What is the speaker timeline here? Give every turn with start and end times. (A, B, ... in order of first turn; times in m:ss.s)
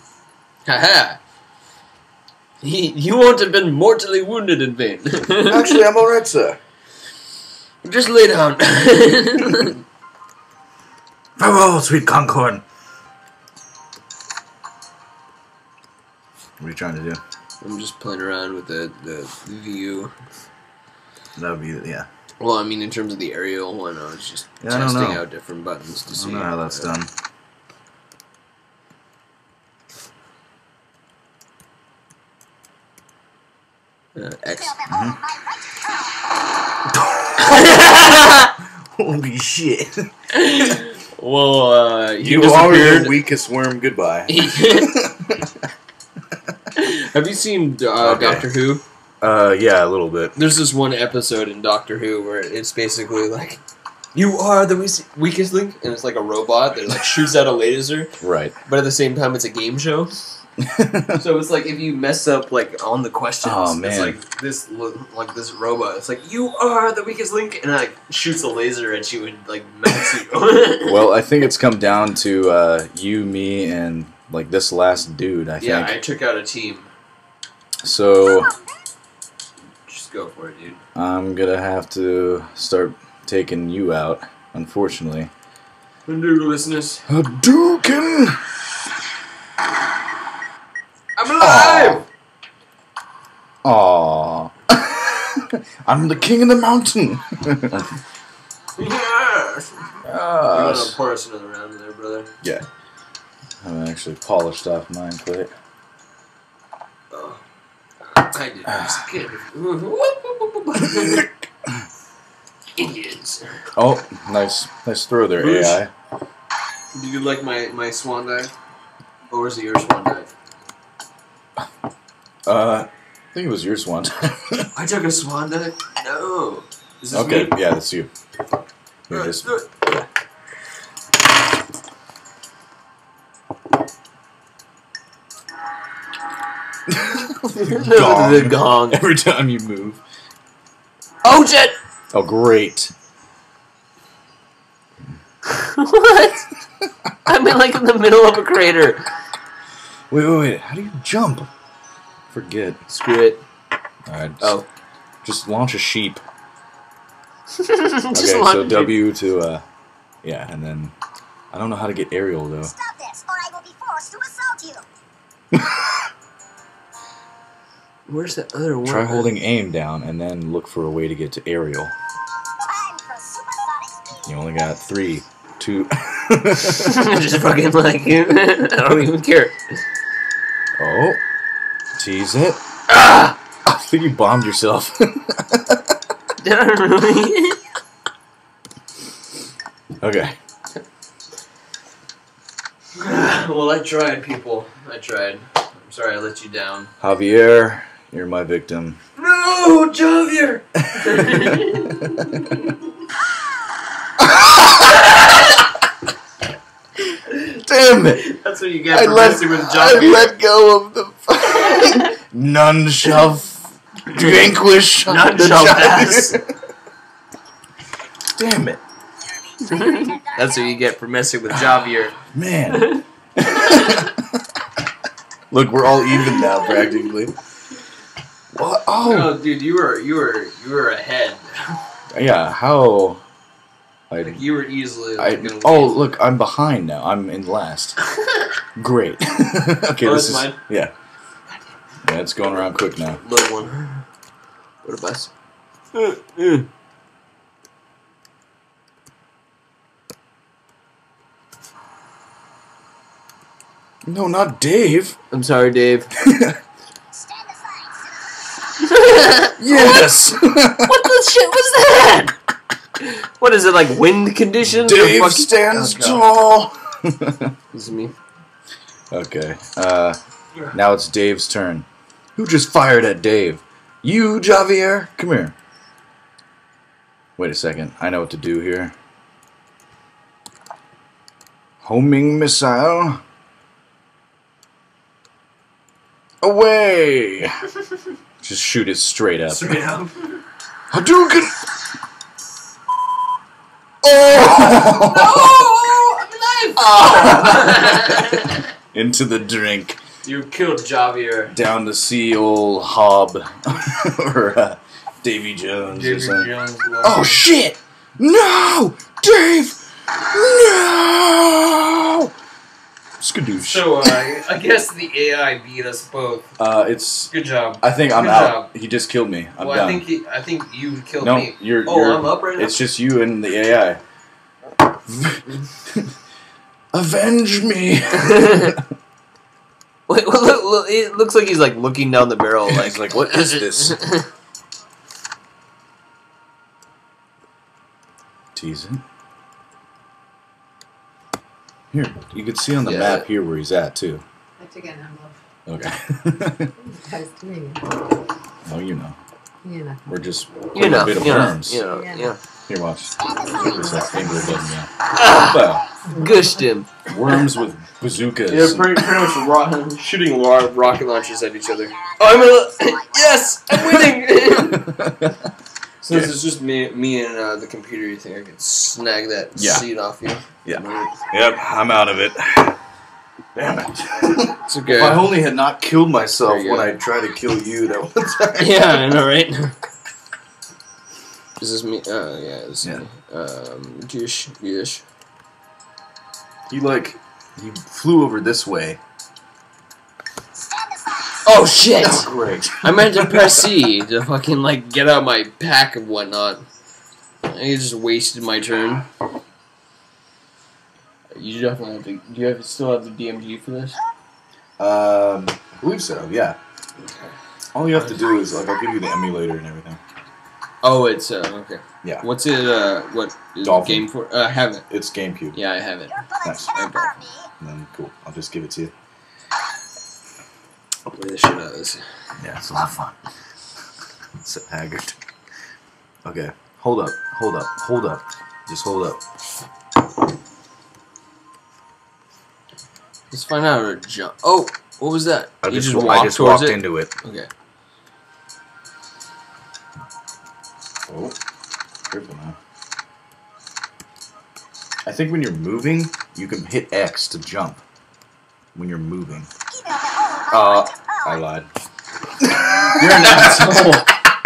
0:00.6-0:01.2 A
0:02.6-0:05.8 A
0:05.4-0:06.6 B
0:07.8-0:09.8 A
0:11.4-0:12.6 B
0:16.6-0:17.2 B
0:17.6-0:20.1 A
0:21.4-0:22.1 B
0:22.4-0:26.9 A
0:24.6-0:25.2 B
0:26.1-0:27.1 B
0:34.1-0:34.9 A
0:34.8-0:35.3 B
0:36.9-0:38.1 B
0:37.4-0:38.5 A
0:38.6-0:39.9 B
0:40.3-0:43.2 A
0:42.2-0:45.6 B
0:44.3-0:45.0 A
0:46.8-0:48.8 A
0:48.0-0:48.5 B
0:49.2-0:50.4 B
0:50.4-0:53.6 A
0:54.1-0:58.1 A
0:58.2-0:58.6 B
0:58.6-1:00.2 A
1:00.6-1:01.2 B
1:01.1-1:11.1 A
1:03.4-1:04.2 B
1:10.8-1:16.0 B
1:15.6-1:16.9 A
1:17.8-1:18.6 B
1:19.9-1:20.8 A
1:20.9-1:25.3 B
1:26.0-1:27.0 A
1:27.1-1:28.5 B
1:31.2-1:32.1 A
1:31.4-1:32.0 B
1:33.6-1:38.0 B
1:38.8-1:42.3 A
1:40.0-1:41.0 B
1:43.6-1:45.5 B
1:47.1-1:47.4 A
1:48.0-1:51.3 A
1:50.8-1:51.8 B
1:52.8-1:53.6 A
1:53.8-1:55.9 B
1:55.4-1:55.8 A
1:56.9-1:58.5 A
1:59.3-2:00.3 A
2:02.4-2:04.7 B
2:04.7-2:07.6 A
2:07.1-2:08.1 B
2:09.1-2:10.0 B
2:09.1-2:10.0 A
2:16.9-2:20.0 B
2:17.4-2:19.0 A
2:21.2-2:21.8 A
2:22.1-2:22.9 B
2:25.5-2:26.5 A
2:27.2-2:29.0 A
2:30.1-2:31.5 B
2:32.3-2:32.8 B
2:32.9-2:33.4 A
2:34.1-2:34.6 B
2:34.4-2:34.6 A
2:35.2-2:36.2 B
2:37.5-2:39.0 A
2:38.1-2:39.6 B
2:40.2-2:40.9 B
2:41.5-2:42.8 B
2:42.8-2:44.8 C
2:45.5-2:46.0 B
2:48.1-2:49.3 A
2:48.8-2:51.9 B
2:52.6-2:54.1 C
2:54.2-2:56.9 B
2:56.7-2:59.6 A
3:00.8-3:01.2 B
3:02.0-3:02.6 B
3:02.9-3:03.3 A
3:03.6-3:05.9 B
3:06.4-3:07.6 A
3:10.0-3:10.3 B
3:13.0-3:16.9 A
3:17.0-3:19.0 B
3:19.2-3:22.9 A
3:20.8-3:22.6 B
3:24.2-3:25.5 B
3:24.8-3:25.6 A
3:27.4-3:28.3 B
3:28.2-3:30.4 A
3:28.9-3:36.5 B
3:31.7-3:32.1 A
3:35.0-3:36.4 A
3:38.3-3:38.8 B
3:39.6-3:42.2 A
3:42.2-3:44.5 B
3:42.7-3:43.0 A
3:45.5-3:47.3 B
3:48.5-3:49.4 B
3:49.0-3:51.8 A
3:52.1-3:53.2 B
3:54.1-3:54.4 B
3:54.2-3:56.2 A
3:55.2-3:58.0 B
3:58.2-3:58.4 A
3:58.8-4:00.9 B
4:00.0-4:00.6 A
4:02.0-4:03.2 B
4:03.2-4:04.1 A
4:04.8-4:05.3 A
4:05.9-4:06.7 A
4:14.0-4:15.2 B
4:15.3-4:16.1 A
4:16.2-4:16.6 B
4:17.3-4:18.0 C
4:18.8-4:22.3 A
4:19.6-4:21.0 B
4:23.0-4:26.2 A
4:24.6-4:27.5 B
4:27.7-4:28.1 A
4:29.1-4:30.2 B
4:30.7-4:35.5 B
4:37.4-4:38.9 B
4:41.8-4:43.2 B
4:46.4-4:47.5 B
4:48.4-4:49.8 B
4:49.5-4:50.4 A
4:50.9-4:51.6 B
4:54.0-4:55.7 B
4:54.5-4:58.6 A
4:56.8-5:00.0 B
5:00.2-5:01.5 A
5:01.5-5:06.5 B
5:05.9-5:07.4 A
5:07.0-5:12.3 B
5:13.2-5:14.2 B
5:13.6-5:16.5 A
5:16.6-5:20.0 B
5:17.3-5:18.7 A
5:19.6-5:22.8 A
5:21.2-5:24.0 B
5:25.1-5:26.1 B
5:26.9-5:28.8 B
5:28.2-5:28.7 A
5:30.1-5:34.2 A
5:32.6-5:34.0 B
5:38.5-5:39.0 B
5:41.9-5:44.2 B
5:42.8-5:43.2 A
5:44.6-5:45.4 D
5:45.7-5:46.7 B
5:46.9-5:47.9 D
5:48.6-5:49.2 B
5:49.6-5:50.0 D
5:50.1-5:51.8 B
5:50.7-5:52.4 A
5:51.9-5:52.3 D
5:52.7-5:55.9 B
5:53.6-5:54.6 D
5:55.1-5:57.1 A
5:57.0-5:59.2 B
5:58.5-6:04.9 A
6:04.7-6:05.5 B
6:06.0-6:11.2 A
6:06.1-6:06.3 B
6:09.6-6:09.8 B
6:10.6-6:12.8 B
6:13.5-6:19.2 B
6:14.7-6:15.4 A
6:16.4-6:16.9 A
6:18.6-6:19.8 A
6:21.6-6:25.0 A
6:26.7-6:29.0 B
6:31.4-6:36.6 A
6:32.0-6:33.7 B
6:37.4-6:39.1 A
6:41.3-6:44.0 A
6:44.8-6:46.6 B
6:47.0-6:47.3 A
6:47.7-6:50.0 B
6:50.8-6:54.8 A
6:53.6-6:54.1 B
6:54.9-6:55.6 B
6:55.5-6:57.4 A
6:56.4-6:56.8 B
6:57.6-6:58.9 B
7:01.0-7:02.1 A
7:02.4-7:03.2 B
7:04.4-7:05.2 B
7:06.2-7:09.2 B
7:13.3-7:17.5 A
7:15.6-7:17.1 B
7:21.1-7:21.4 B
7:22.1-7:22.6 B
7:25.0-7:27.8 B
7:28.7-7:29.5 B
7:29.9-7:30.4 C
7:30.5-7:31.7 B
7:32.4-7:34.0 B
7:33.0-7:34.1 A